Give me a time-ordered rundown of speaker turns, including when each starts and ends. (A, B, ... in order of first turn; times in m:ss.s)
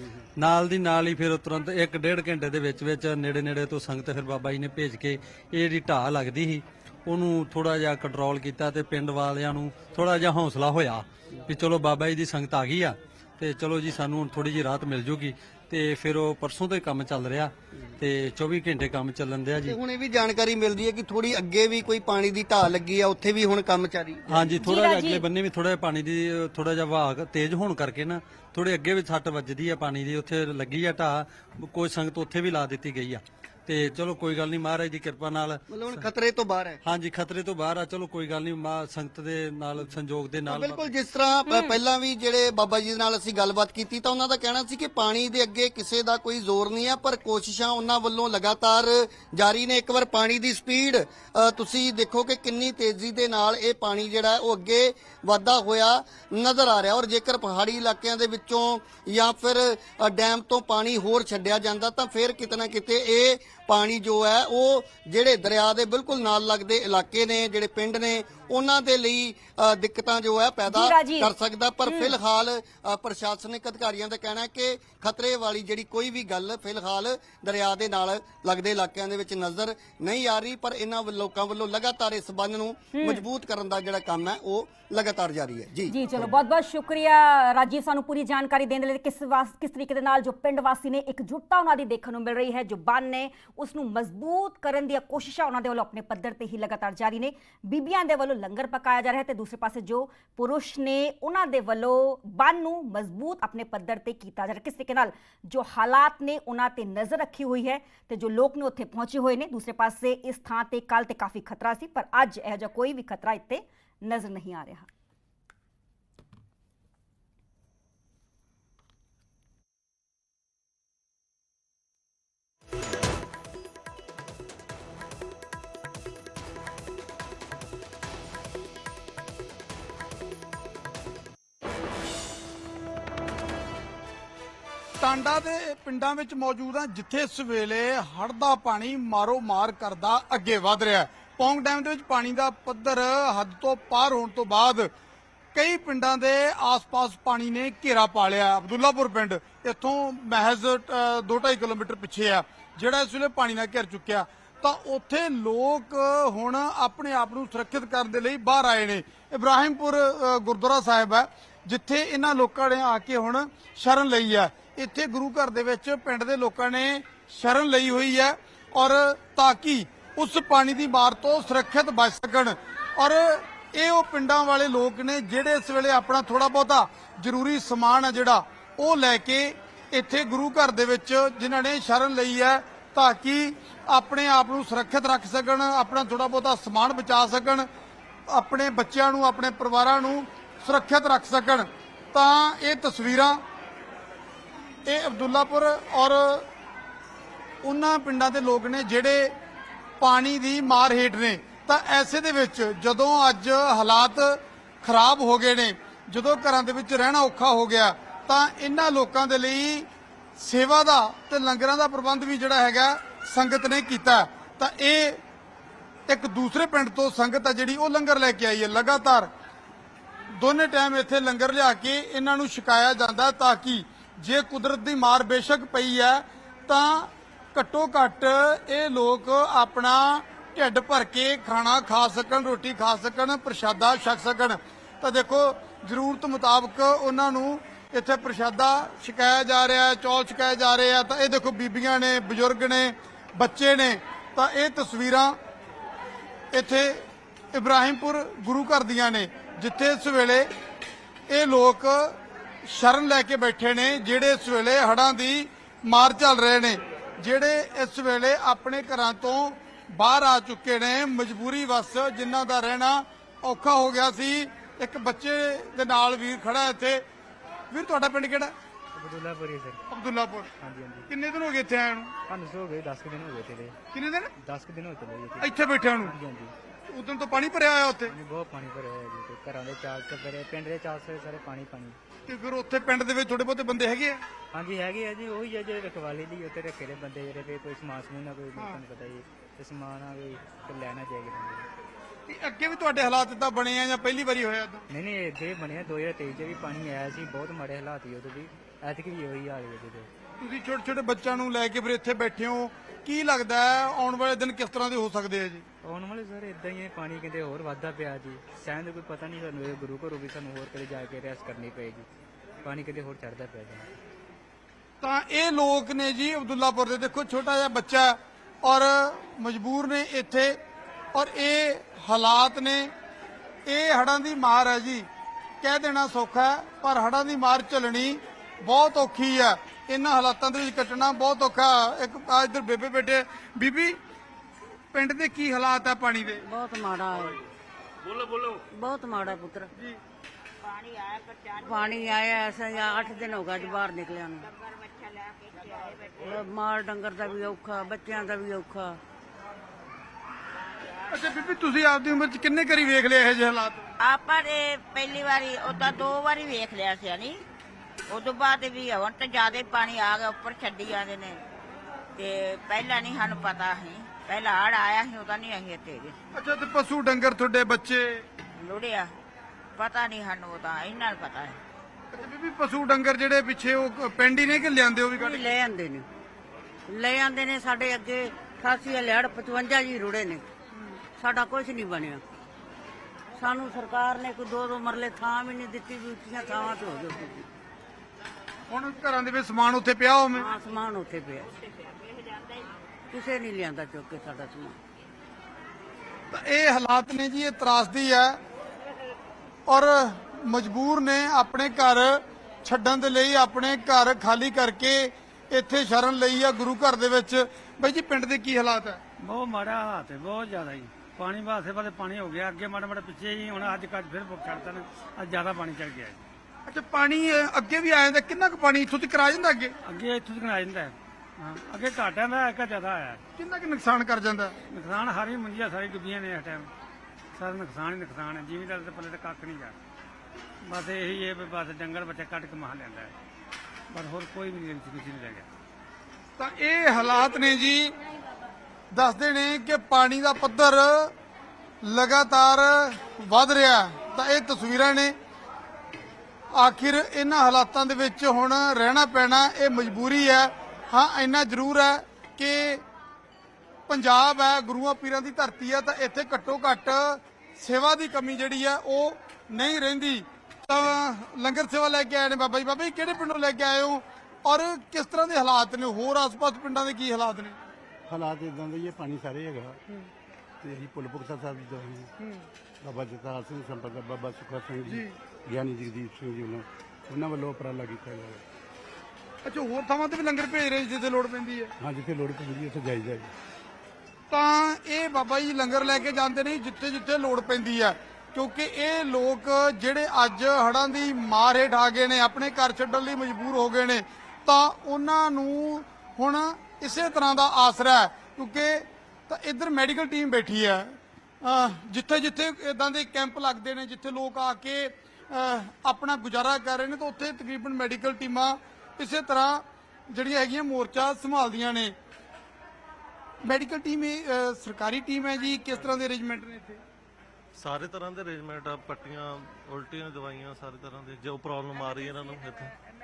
0:00.4-0:19.8 A
0:19.6-0:24.5 B
0:24.3-0:35.7 A
0:24.6-0:25.2 C
0:35.7-0:36.8 B
0:36.8-0:40.9 A
0:40.4-1:26.4 B
1:10.7-1:11.3 C
1:22.9-1:23.2 C
1:25.9-1:54.9 C
2:15.0-2:24.9 D
2:25.5-3:07.7 D
3:08.3-3:13.4 D
3:14.8-3:16.5 D
3:17.6-3:19.3 D
3:20.0-3:35.2 D
3:36.1-3:39.3 D
3:40.3-4:05.4 D
4:06.5-4:10.5 D
4:11.3-4:27.0 D
4:27.7-4:28.5 D
4:28.9-4:29.8 E
4:29.9-4:30.5 D
4:30.6-4:31.1 E
4:31.1-4:32.1 D
4:32.3-4:33.8 E
4:33.9-4:34.3 D
4:34.4-4:36.5 E
4:35.4-4:36.1 D
4:36.9-4:38.1 D
4:38.1-4:42.0 E
4:42.3-4:44.2 D
4:44.5-4:51.7 E
4:52.3-4:54.8 D
4:54.9-5:00.1 E
5:00.4-5:05.6 D
5:05.8-5:12.1 E
5:12.6-5:13.9 E
5:15.0-5:20.6 D
5:21.1-5:22.9 D
5:23.6-5:25.1 D
5:25.6-5:34.0 D
5:34.9-5:36.4 D
5:36.4-5:37.4 F
5:38.7-5:39.7 F
5:40.6-5:41.6 G
5:41.6-5:44.4 F
5:44.4-5:46.3 G
5:46.2-5:49.0 F
5:51.1-5:53.8 D
5:54.0-5:57.4 G
5:58.1-6:01.4 G
6:02.2-6:06.1 G
6:06.3-6:08.2 D
6:08.6-6:09.1 G
6:09.8-6:11.6 G
6:12.1-6:15.4 D
6:15.1-6:16.0 F
6:16.9-6:20.4 F
6:21.2-6:22.2 F
6:23.4-6:27.5 F
6:28.7-6:30.5 D
6:30.3-6:31.5 F
6:31.8-6:32.6 G
6:33.1-6:34.8 F
6:36.3-6:38.4 D
6:39.7-6:49.0 D
6:49.2-6:56.2 H
6:56.7-6:59.7 D
6:59.8-7:03.2 H
7:03.4-7:04.6 D
7:04.7-7:06.7 H
7:07.3-7:09.7 H
7:10.6-7:13.1 H
7:13.9-7:15.4 H
7:16.4-7:17.9 D
7:18.9-7:21.1 D
7:21.8-7:25.1 D
7:26.5-7:32.8 D
7:33.9-7:47.6 D
7:48.1-7:49.8 I
7:50.6-7:52.1 I
7:52.8-7:58.4 I
7:54.9-7:55.1 D
7:59.4-8:01.7 D
8:01.8-8:03.3 I
8:04.3-8:31.9 D
8:33.4-8:36.8 D
8:37.5-8:42.7 J